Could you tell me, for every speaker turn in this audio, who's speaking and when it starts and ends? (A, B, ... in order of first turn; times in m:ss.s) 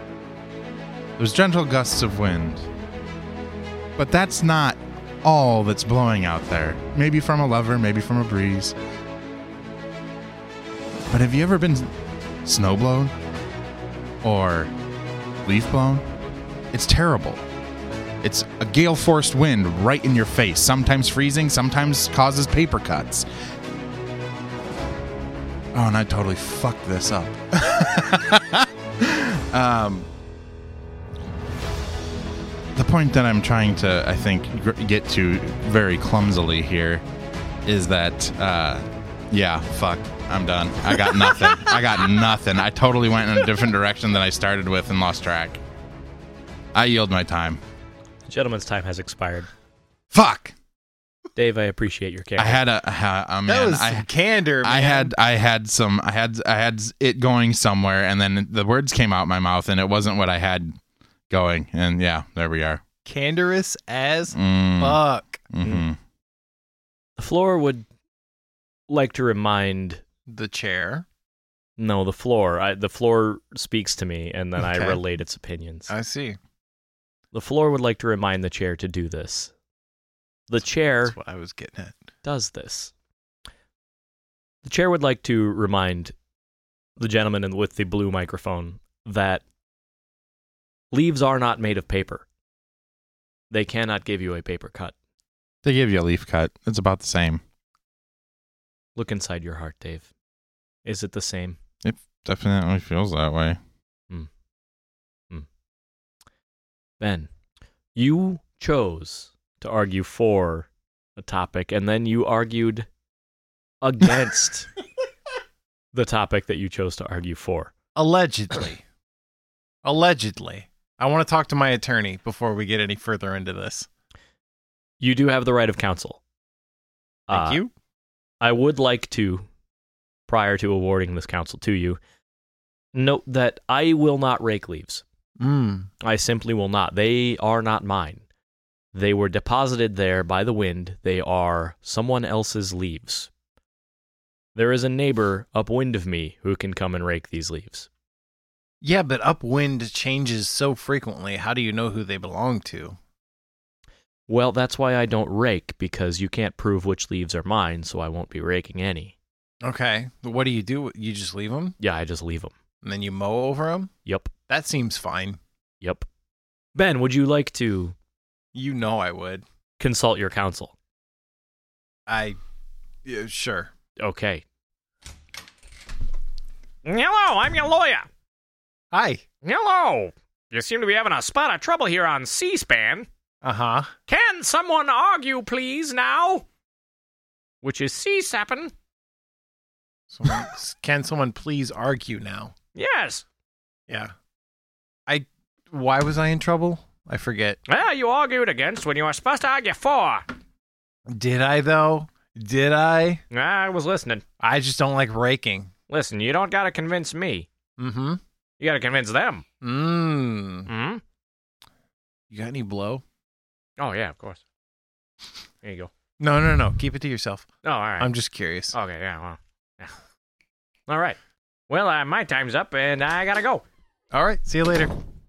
0:01.2-0:02.7 A
0:04.0-0:08.8 A
0:11.1-0:11.9 A
0:12.4-0:13.1 A
0:14.2-0:14.7 A
0:15.4-0:16.0 A
0:16.7-0:17.4 A
0:18.2-0:23.2 A
0:25.7-0:30.1 A
0:32.8-0:37.0 A
0:37.6-0:45.6 A
0:41.1-0:41.8 B
0:46.7-0:47.6 A
0:48.3-0:49.5 C
0:50.1-0:50.6 A
0:51.4-0:52.6 C
0:52.4-0:54.1 A
0:53.5-0:55.1 B
0:54.6-1:00.8 A
1:01.3-1:02.8 A
1:03.1-1:05.4 B
1:04.3-1:05.0 A
1:05.5-1:06.0 A
1:07.2-1:07.9 C
1:08.9-1:10.0 C
1:10.3-1:11.1 B
1:11.8-1:15.9 C
1:14.6-1:15.0 B
1:15.9-1:16.4 B
1:17.3-1:19.5 C
1:20.5-1:21.2 C
1:21.1-1:22.0 B
1:22.2-1:22.9 C
1:24.6-1:26.1 C
1:27.0-1:29.4 C
1:30.9-1:32.2 C
1:33.5-1:35.0 C
1:35.6-1:37.4 A
1:39.0-1:40.1 C
1:40.8-1:41.6 C
1:41.8-1:43.6 A
1:47.0-1:47.3 C
1:48.0-1:52.9 C
1:53.8-1:54.7 C
1:55.9-1:57.7 C
1:58.0-1:58.8 B
1:59.8-2:03.9 B
2:05.0-2:06.2 C
2:07.3-2:07.6 C
2:07.3-2:07.7 B
2:08.4-2:09.5 C
2:10.3-2:12.0 C
2:12.9-2:15.0 C
2:15.4-2:15.9 B
2:16.0-2:18.2 C
2:18.9-2:23.3 C
2:24.6-2:27.9 C
2:28.8-2:33.0 B
2:34.3-2:39.2 C
2:39.6-2:41.8 B
2:41.8-2:42.5 C
2:42.8-2:43.9 B
2:44.1-2:44.3 C
2:44.5-2:45.4 B
2:45.8-2:46.1 C
2:46.8-2:47.9 C
2:48.5-2:49.4 B
2:49.8-2:50.7 C
2:52.1-2:52.4 B
2:53.0-2:53.7 B
2:54.0-2:54.4 C
2:56.8-2:58.1 C
2:58.9-2:59.2 B
2:59.4-3:03.1 C
3:03.4-3:03.9 B
3:04.1-3:06.5 C
3:07.6-3:08.7 C
3:10.1-3:12.5 B
3:12.8-3:13.2 C
3:15.1-3:17.6 B
3:17.7-3:20.3 C
3:21.1-3:23.2 B
3:23.3-3:24.2 C
3:24.4-3:25.7 B
3:25.9-3:27.5 C
3:27.8-3:28.2 B
3:28.6-3:29.4 C
3:29.6-3:30.7 B
3:30.7-3:31.0 C
3:32.3-3:33.0 B
3:33.8-3:34.4 C
3:35.6-3:35.9 C
3:36.2-3:37.5 B
3:37.6-3:38.1 C
3:38.0-3:38.7 B
3:38.7-3:40.0 C
3:40.9-3:41.2 C
3:41.7-3:43.6 C
3:44.1-3:44.9 B